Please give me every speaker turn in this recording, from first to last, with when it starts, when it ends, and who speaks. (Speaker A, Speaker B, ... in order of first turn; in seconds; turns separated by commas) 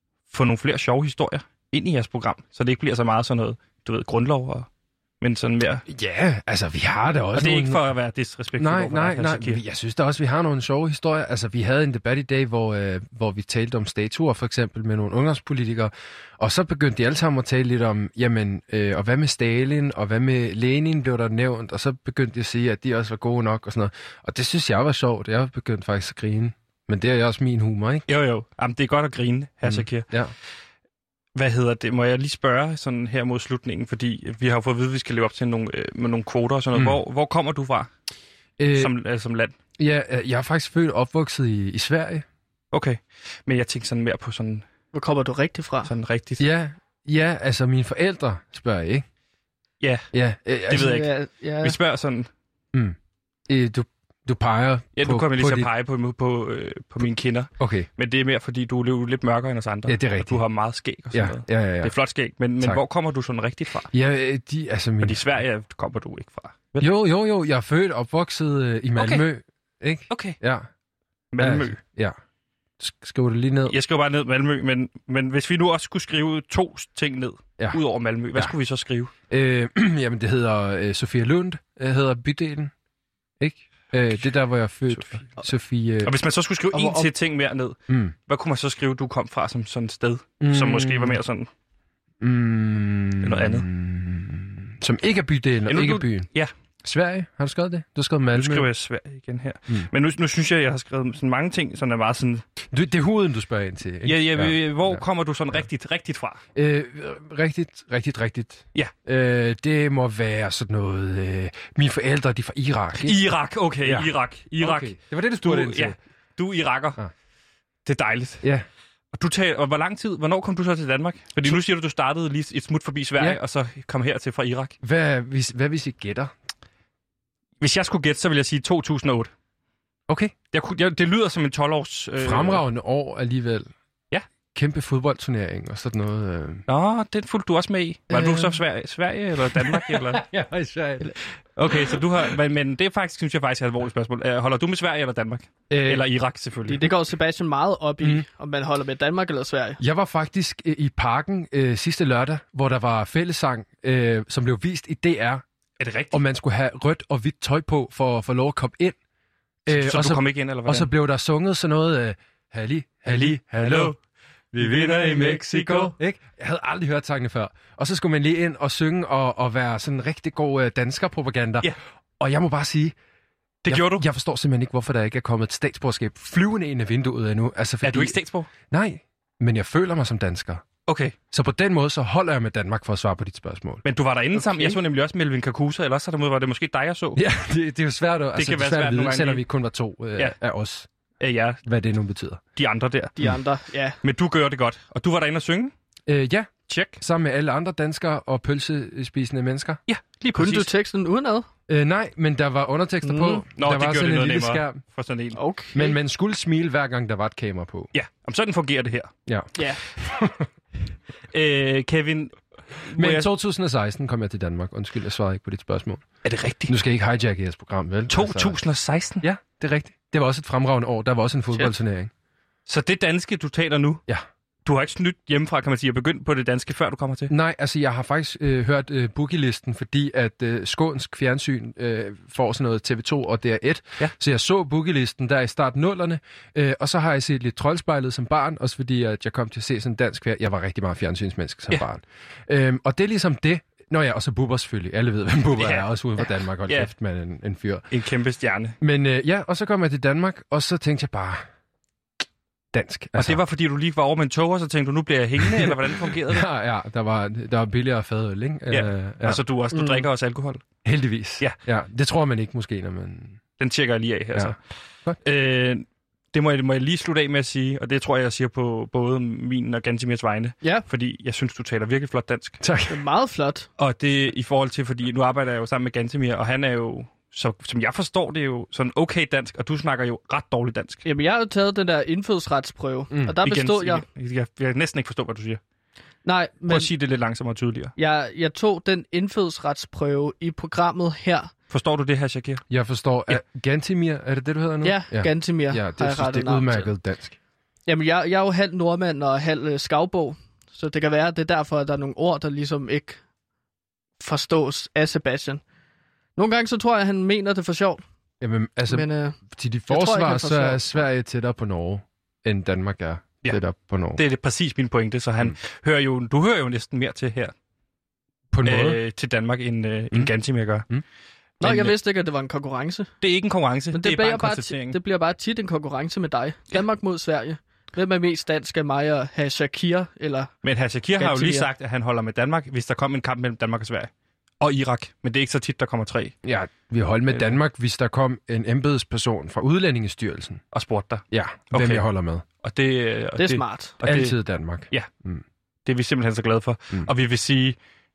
Speaker A: 0.3-4.7, Speaker A: 5.2-5.8, Speaker B: 5.9-7.8, Speaker A: 7.3-9.6, Speaker B: 8.6-28.0, Speaker A: 28.1-30.1, Speaker B: 29.6-30.3, Speaker A: 31.3-37.9, Speaker B: 38.6-38.9, Speaker A: 38.8-39.5, Speaker B: 39.8-42.2, Speaker A: 42.7-44.6, Speaker C: 44.9-45.9, Speaker A: 45.8-46.5, Speaker B: 46.4-49.0, Speaker A: 49.8-50.1, Speaker B: 50.1-51.0, Speaker A: 50.7-51.1, Speaker C: 50.7-51.8, Speaker A: 51.6-52.3, Speaker B: 53.5-55.7, Speaker A: 55.0-63.9, Speaker B: 57.6-57.9, Speaker B: 59.9-60.4, Speaker B: 61.1-61.9, Speaker B: 63.9-65.2, Speaker A: 65.0-66.9, Speaker B: 66.8-70.7, Speaker A: 69.0-69.2, Speaker A: 70.1-70.3, Speaker A: 71.3-71.8, Speaker B: 71.4-72.2, Speaker B: 72.8-73.8, Speaker A: 73.7-79.1, Speaker B: 79.3-82.7, Speaker B: 83.4-86.1, Speaker A: 84.9-85.4, Speaker A: 86.0-91.5, Speaker C: 86.7-87.1, Speaker B: 87.9-88.1, Speaker B: 90.4-91.2, Speaker B: 92.2-96.3, Speaker A: 93.2-93.7, Speaker A: 95.7-96.5, Speaker B: 96.8-98.7, Speaker A: 98.3-102.4, Speaker B: 102.7-105.6, Speaker A: 104.0-106.4, Speaker B: 106.5-116.0, Speaker A: 113.0-117.0, Speaker A: 117.8-118.4, Speaker A: 119.1-124.7, Speaker B: 124.8-126.3, Speaker A: 127.6-129.3, Speaker B: 130.1-130.3, Speaker A: 130.5-132.6, Speaker B: 132.2-133.7, Speaker B: 134.5-136.6, Speaker A: 136.7-140.2, Speaker C: 138.1-138.5, Speaker B: 139.5-141.2, Speaker A: 141.6-146.9, Speaker B: 141.7-142.0, Speaker B: 145.7-146.1, Speaker C: 146.7-149.8, Speaker B: 149.8-155.4, Speaker A: 155.8-156.2, Speaker B: 156.1-159.0, Speaker B: 159.7-163.9, Speaker A: 159.7-160.9, Speaker A: 163.1-163.9, Speaker B: 164.5-172.9, Speaker A: 164.6-165.9, Speaker A: 173.6-174.0, Speaker B: 173.7-178.2, Speaker A: 177.8-178.5, Speaker B: 178.7-180.6, Speaker A: 180.9-181.2, Speaker B: 181.3-183.8, Speaker A: 183.8-187.2, Speaker C: 184.3-184.8, Speaker B: 187.2-190.9, Speaker A: 188.3-189.4, Speaker A: 191.2-191.6, Speaker B: 191.6-192.4, Speaker A: 192.6-193.3, Speaker C: 193.2-193.9, Speaker A: 194.0-195.7, Speaker B: 196.1-199.8, Speaker A: 196.7-197.0, Speaker A: 199.9-200.7, Speaker C: 200.3-201.5, Speaker B: 201.7-204.8, Speaker C: 203.0-203.4, Speaker A: 203.6-205.4, Speaker C: 205.3-205.9, Speaker B: 205.7-207.9, Speaker A: 207.9-209.1, Speaker B: 209.3-210.5, Speaker A: 211.3-213.3, Speaker B: 212.9-216.0, Speaker A: 216.2-216.7, Speaker B: 216.7-218.6, Speaker A: 218.1-219.2, Speaker B: 219.2-222.1, Speaker A: 222.7-224.0, Speaker A: 224.7-227.3, Speaker B: 227.3-247.8, Speaker A: 245.6-246.9, Speaker A: 247.9-248.7, Speaker B: 248.8-251.4, Speaker B: 252.7-253.4, Speaker A: 253.2-256.4, Speaker B: 255.4-259.4, Speaker A: 258.7-260.6, Speaker C: 259.7-260.1, Speaker B: 260.8-263.4, Speaker A: 263.6-264.6, Speaker B: 264.3-265.2, Speaker A: 265.2-272.6, Speaker B: 272.6-273.0, Speaker C: 272.9-273.7, Speaker A: 273.8-281.0, Speaker C: 281.0-284.0, Speaker B: 283.1-283.4, Speaker A: 283.4-285.6, Speaker C: 286.2-286.9, Speaker A: 286.7-287.9, Speaker C: 288.0-291.5, Speaker A: 291.7-292.6, Speaker B: 292.7-297.4, Speaker C: 294.8-296.9, Speaker C: 297.9-303.2, Speaker C: 304.2-305.6, Speaker C: 306.4-308.0, Speaker B: 308.4-314.2, Speaker C: 308.9-309.4, Speaker C: 309.9-311.0, Speaker A: 314.2-317.5, Speaker B: 318.5-319.0, Speaker A: 318.6-320.9, Speaker A: 321.6-321.9, Speaker C: 321.6-323.1, Speaker A: 323.2-325.0, Speaker C: 323.9-330.5, Speaker A: 330.6-336.4, Speaker C: 331.2-331.7, Speaker B: 336.4-340.6, Speaker A: 340.7-342.0, Speaker B: 341.3-342.4, Speaker A: 342.6-344.4, Speaker C: 343.4-343.9, Speaker B: 344.0-345.4, Speaker A: 345.9-347.8